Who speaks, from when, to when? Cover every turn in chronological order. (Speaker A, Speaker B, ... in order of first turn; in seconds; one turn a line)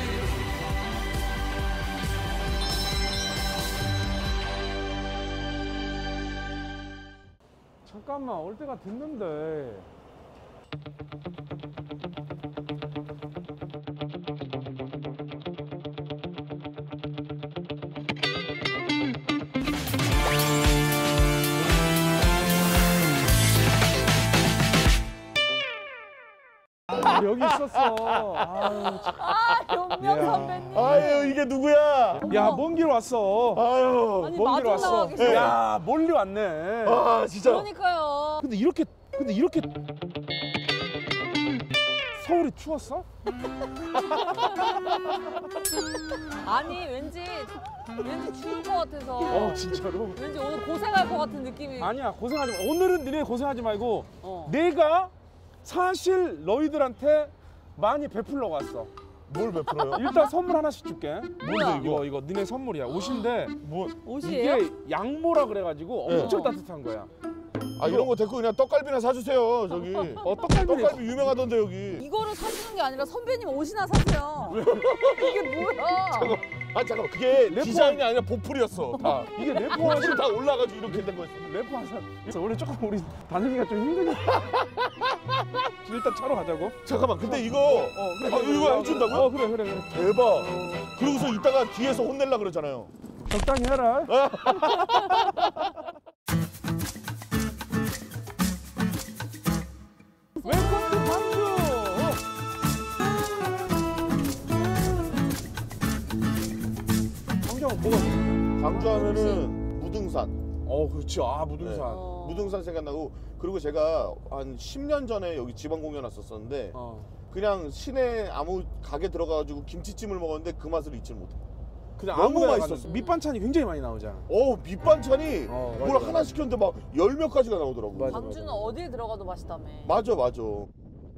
Speaker A: 7.8-9.9
Speaker A: 26.9-29.1
Speaker B: 27.9-28.8
Speaker C: 29.1-31.4
Speaker A: 30.0-31.0
Speaker B: 30.3-32.3
Speaker A: 32.2-33.6
Speaker C: 32.2-32.6
Speaker B: 33.5-35.6
Speaker C: 34.2-35.5
Speaker A: 34.4-37.1
Speaker B: 36.8-37.7
Speaker C: 37.4-38.4
Speaker A: 38.4-39.7
Speaker A: 42.2-43.0
Speaker C: 46.4-51.9
Speaker A: 49.3-50.2
Speaker A: 51.8-55.1
Speaker C: 54.2-54.5
Speaker A: 55.6-58.9
Speaker B: 59.3-60.0
Speaker A: 59.9-63.6
Speaker C: 59.9-60.3
Speaker C: 61.4-61.9
Speaker B: 61.4-62.1
Speaker B: 63.6-63.9
Speaker C: 64.0-64.7
Speaker A: 64.2-67.1
Speaker B: 66.0-66.5
Speaker C: 66.1-66.6
Speaker B: 67.8-72.0
Speaker A: 67.8-68.1
Speaker A: 70.3-71.1
Speaker C: 72.0-76.4
Speaker A: 74.5-74.8
Speaker B: 74.6-75.4
Speaker B: 76.1-81.5
Speaker A: 77.3-78.0
Speaker A: 79.0-80.3
Speaker A: 80.9-84.4
Speaker A: 85.8-90.3
Speaker B: 86.8-89.3
Speaker B: 89.9-92.9
Speaker A: 93.2-94.2
Speaker B: 94.1-95.5
Speaker A: 100.4-102.2
Speaker C: 100.4-101.3
Speaker A: 107.4-109.2
Speaker B: 108.6-110.3
Speaker C: 108.9-109.4
Speaker A: 110.6-112.2
Speaker B: 111.6-116.8
Speaker C: 111.8-112.5
Speaker A: 116.7-117.1
Speaker B: 117.3-121.4
Speaker A: 122.0-124.3
Speaker B: 122.1-122.9
Speaker C: 122.8-123.1
Speaker B: 124.3-128.2
Speaker A: 125.5-126.4
Speaker A: 127.9-128.8
Speaker C: 128.1-130.0
Speaker B: 129.8-130.7